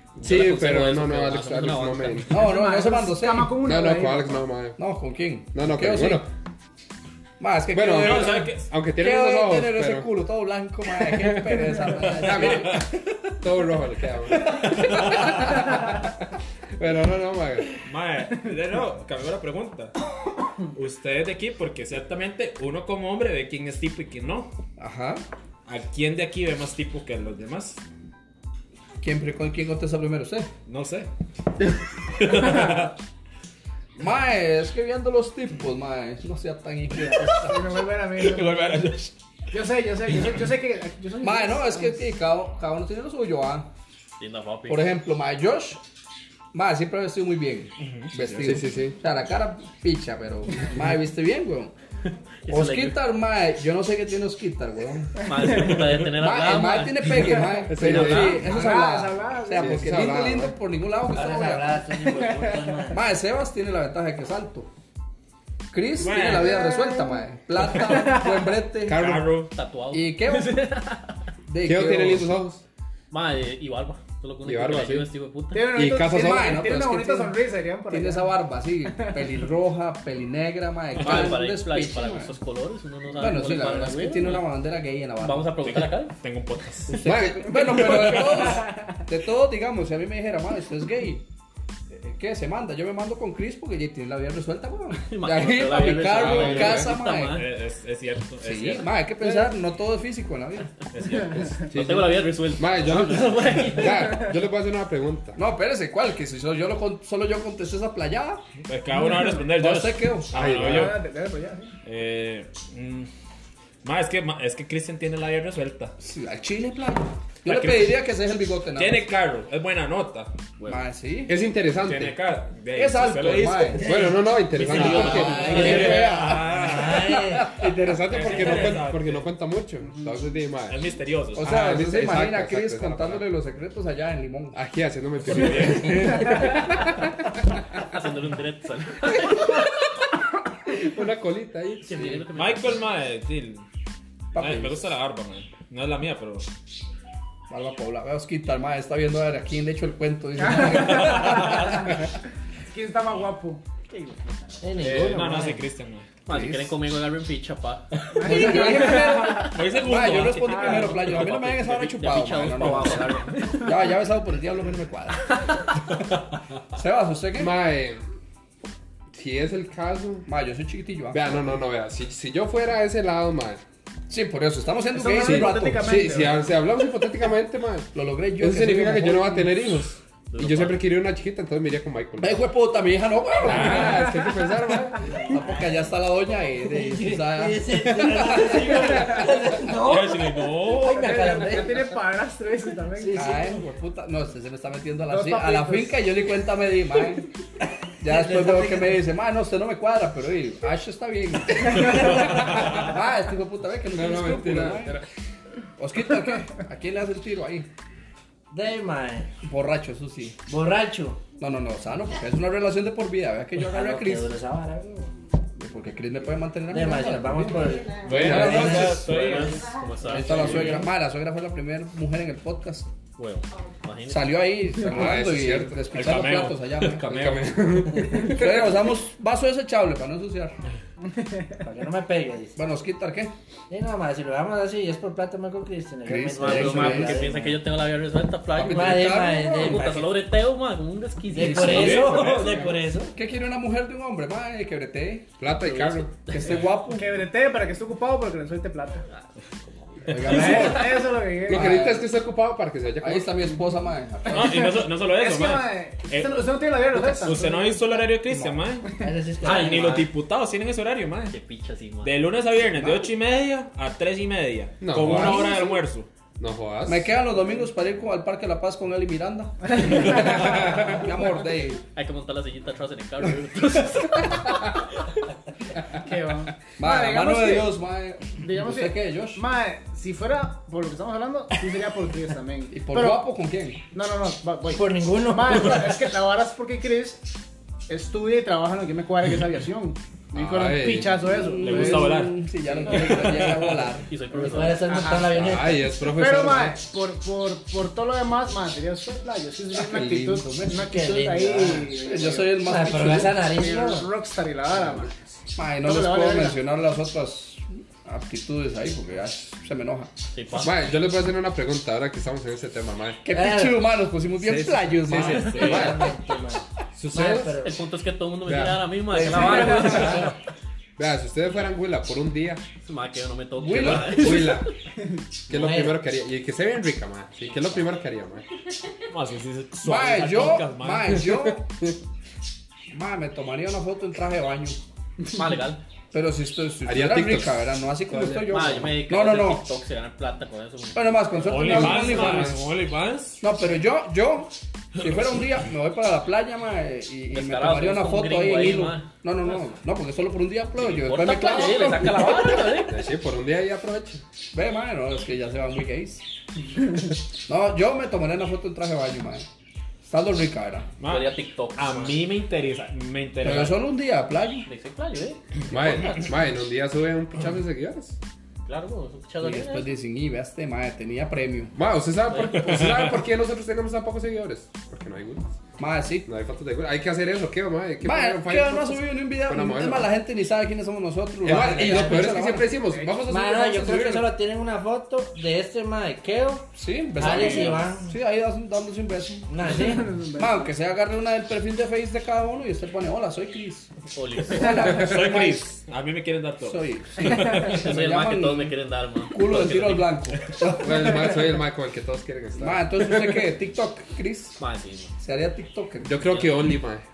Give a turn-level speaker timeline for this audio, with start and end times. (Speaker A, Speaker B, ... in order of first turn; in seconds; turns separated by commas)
Speaker A: 0.2-2.3, Speaker B: 0.2-2.5, Speaker C: 2.3-3.6, Speaker D: 2.5-4.5, Speaker B: 3.6-4.8, Speaker C: 4.8-6.2, Speaker B: 5.5-6.3, Speaker C: 7.4-13.0, Speaker B: 7.7-10.1, Speaker E: 7.9-8.7, Speaker B: 12.1-12.9, Speaker E: 12.2-12.8, Speaker B: 13.4-16.1, Speaker C: 14.5-15.5, Speaker E: 14.9-15.5, Speaker B: 16.8-17.8, Speaker E: 17.8-20.0, Speaker E: 20.7-24.5, Speaker C: 24.8-25.2, Speaker E: 25.7-27.8, Speaker C: 29.0-30.5, Speaker E: 30.7-31.1, Speaker E: 32.2-32.9, Speaker C: 34.0-37.7, Speaker D: 37.3-38.8, Speaker E: 38.1-39.1, Speaker D: 39.5-42.0, Speaker C: 41.2-43.7, Speaker A: 44.2-44.9, Speaker C: 44.7-45.8, Speaker C: 46.5-51.7, Speaker E: 47.8-48.1, Speaker B: 48.1-49.0, Speaker A: 52.5-53.0, Speaker C: 52.5-55.1, Speaker A: 55.2-58.4, Speaker C: 56.1-61.8, Speaker D: 57.6-60.1, Speaker B: 57.7-58.6, Speaker B: 59.6-60.5, Speaker F: 61.1-63.0, Speaker D: 62.1-62.9, Speaker C: 62.9-64.7, Speaker C: 65.7-69.1, Speaker E: 66.0-66.7, Speaker D: 66.6-67.2, Speaker B: 68.9-69.3, Speaker E: 68.9-69.5, Speaker A: 69.5-71.1, Speaker C: 69.9-70.6, Speaker C: 71.5-72.4, Speaker B: 71.6-72.6, Speaker A: 73.1-75.7, Speaker B: 74.4-75.1, Speaker D: 75.5-78.3, Speaker B: 75.7-76.8, Speaker C: 76.1-77.4, Speaker C: 77.9-82.3, Speaker A: 81.0-84.5, Speaker C: 83.2-85.7, Speaker A: 85.2-86.1, Speaker E: 85.6-87.1, Speaker C: 86.9-91.2, Speaker B: 87.0-88.1, Speaker E: 87.9-88.5, Speaker D: 88.6-89.0, Speaker C: 91.9-97.4, Speaker A: 95.1-97.5, Speaker B: 96.1-96.9, Speaker E: 96.7-98.9, Speaker C: 98.4-100.7, Speaker E: 100.9-101.6, Speaker D: 101.1-101.5, Speaker B: 101.6-105.4, Speaker A: 101.7-104.3, Speaker C: 105.4-108.4, Speaker E: 108.7-111.0, Speaker C: 109.5-110.3, Speaker B: 110.3-111.0, Speaker D: 110.6-111.8, Speaker E: 111.8-113.1, Speaker E: 113.8-115.9, Speaker C: 116.0-119.1, Speaker E: 117.5-118.0, Speaker E: 118.8-120.3, Speaker A: 120.6-120.8, Speaker C: 120.7-121.3, Speaker B: 121.3-122.2, Speaker E: 121.8-123.8, Speaker C: 122.7-124.0, Speaker B: 123.8-126.1, Speaker E: 124.6-127.2, Speaker F: 124.6-127.5, Speaker C: 124.6-127.7, Speaker A: 124.7-125.7, Speaker B: 127.5-130.8, Speaker E: 128.1-129.3, Speaker D: 129.8-130.2, Speaker E: 130.7-131.7, Speaker B: 131.4-133.3, Speaker C: 131.4-134.6, Speaker B: 134.5-137.1, Speaker E: 135.2-136.4, Speaker C: 135.4-136.6, Speaker A: 137.8-139.5, Speaker B: 140.7-142.2, Speaker A: 141.8-142.8, Speaker E: 142.3-143.7, Speaker C: 144.3-144.8, Speaker E: 144.3-146.5, Speaker C: 147.5-152.0, Speaker D: 150.4-151.8, Speaker E: 150.8-151.9, Speaker D: 152.7-154.6, Speaker F: 154.6-155.6, Speaker E: 154.8-156.1, Speaker A: 156.3-157.8, Speaker C: 156.3-156.8, Speaker E: 157.9-161.8, Speaker D: 158.2-159.6, Speaker C: 158.2-165.3, Speaker D: 160.4-160.9, Speaker A: 160.8-163.4, Speaker D: 163.4-163.8, Speaker C: 166.7-167.6, Speaker B: 167.4-168.0, Speaker B: 169.1-170.3, Speaker C: 170.3-171.3, Speaker B: 171.1-173.6, Speaker C: 174.1-176.0, Speaker D: 174.9-176.6, Speaker B: 175.2-182.4, Speaker C: 177.9-179.5, Speaker A: 180.3-180.8, Speaker C: 182.2-184.3, Speaker B: 183.4-185.0, Speaker E: 183.5-184.0, Speaker C: 185.3-189.7, Speaker F: 186.9-191.9, Speaker E: 189.7-191.4, Speaker D: 190.9-193.5, Speaker F: 193.0-193.5, Speaker C: 193.1-197.3, Speaker D: 195.1-196.0, Speaker C: 198.0-205.0, Speaker F: 198.0-199.0, Speaker B: 203.9-205.0, Speaker C: 205.8-207.7, Speaker F: 208.5-209.3, Speaker C: 209.4-210.4, Speaker F: 210.5-211.2, Speaker C: 211.4-214.3, Speaker F: 213.6-215.1, Speaker C: 215.6-218.7, Speaker F: 216.7-219.1, Speaker E: 218.0-219.7, Speaker B: 218.1-218.8, Speaker A: 218.2-220.8, Speaker C: 220.0-222.9, Speaker E: 220.3-220.8, Speaker A: 223.2-224.5, Speaker C: 224.1-230.6, Speaker B: 224.8-225.8, Speaker E: 225.9-227.6, Speaker B: 227.0-228.7, Speaker F: 231.6-232.6, Speaker C: 232.6-233.3, Speaker F: 233.7-237.6, Speaker C: 236.1-237.3, Speaker A: 236.4-242.4, Speaker C: 238.5-240.1, Speaker F: 238.6-240.1, Speaker F: 241.3-243.2, Speaker C: 241.4-242.3, Speaker E: 241.7-242.3, Speaker B: 241.7-242.8, Speaker C: 243.1-245.4, Speaker B: 245.4-246.2, Speaker A: 245.7-246.6, Speaker C: 246.3-247.2, Speaker D: 246.9-249.0, Speaker A: 249.1-250.9, Speaker C: 250.1-252.1, Speaker D: 250.3-251.7, Speaker B: 251.4-253.4, Speaker C: 253.0-254.8, Speaker E: 254.3-258.9, Speaker D: 254.3-258.0, Speaker C: 258.3-258.7, Speaker F: 259.0-260.1, Speaker E: 259.4-261.4, Speaker A: 259.5-259.9, Speaker A: 261.3-262.1, Speaker E: 262.0-266.1, Speaker C: 262.8-263.1, Speaker B: 264.8-265.6, Speaker C: 265.0-265.6, Speaker B: 266.4-267.2, Speaker C: 266.9-271.8, Speaker A: 271.9-274.6, Speaker D: 275.9-277.8, Speaker C: 276.8-279.4, Speaker D: 278.4-283.3, Speaker C: 282.7-283.8, Speaker D: 283.9-287.2, Speaker F: 284.7-286.0, Speaker D: 287.9-292.2, Speaker B: 290.3-291.2, Speaker C: 291.2-294.5, Speaker E: 291.6-293.9, Speaker A: 294.1-295.0, Speaker F: 294.4-296.0, Speaker D: 294.9-295.4, Speaker B: 295.3-296.8, Speaker D: 296.0-302.7, Speaker C: 299.9-300.8, Speaker F: 300.7-301.9, Speaker C: 302.0-303.4, Speaker F: 302.6-304.1, Speaker D: 303.4-305.2, Speaker C: 305.6-310.1, Speaker D: 305.8-306.6, Speaker A: 310.3-310.7, Speaker B: 310.6-313.3, Speaker C: 313.2-315.9, Speaker F: 313.3-314.0, Speaker B: 314.4-316.1, Speaker F: 315.2-317.8, Speaker B: 317.0-317.6, Speaker A: 317.6-320.3, Speaker B: 318.5-320.3, Speaker C: 319.1-320.3, Speaker B: 321.0-322.6, Speaker A: 322.8-324.7, Speaker C: 323.6-324.5, Speaker B: 323.8-324.7, Speaker F: 325.5-326.0, Speaker B: 325.5-328.4, Speaker E: 329.1-331.5, Speaker C: 329.8-331.7, Speaker C: 332.9-334.8, Speaker A: 335.3-335.8, Speaker C: 336.1-339.7, Speaker B: 336.9-338.8, Speaker A: 338.5-341.2, Speaker C: 340.9-342.6, Speaker E: 341.5-343.4, Speaker B: 341.6-342.6, Speaker C: 343.4-352.7, Speaker A: 347.3-349.1, Speaker A: 350.9-353.0, Speaker B: 352.8-354.2, Speaker C: 354.5-356.2, Speaker C: 357.5-359.5, Speaker C: 360.0-360.9, Speaker E: 361.0-363.8, Speaker A: 361.1-362.2, Speaker C: 363.4-364.7, Speaker A: 364.7-366.3, Speaker B: 365.7-368.2, Speaker A: 368.7-369.9, Speaker C: 369.4-371.7, Speaker B: 371.8-375.6, Speaker A: 372.3-372.5, Speaker E: 372.6-373.1, Speaker C: 375.8-376.3, Speaker B: 376.3-380.1, Speaker C: 378.0-382.8, Speaker B: 381.4-384.2, Speaker F: 381.5-382.5, Speaker D: 382.9-383.2, Speaker F: 383.3-388.1, Speaker C: 383.7-384.3, Speaker C: 386.8-393.9, Speaker F: 389.5-390.1, Speaker D: 389.8-390.6, Speaker A: 394.1-394.9, Speaker C: 394.5-395.6, Speaker E: 394.6-397.9, Speaker C: 396.6-398.8, Speaker A: 397.6-400.2, Speaker C: 399.3-401.5, Speaker B: 400.8-403.4, Speaker C: 402.6-404.6, Speaker A: 404.6-405.1, Speaker C: 405.2-406.1, Speaker B: 406.0-407.0, Speaker A: 406.2-406.7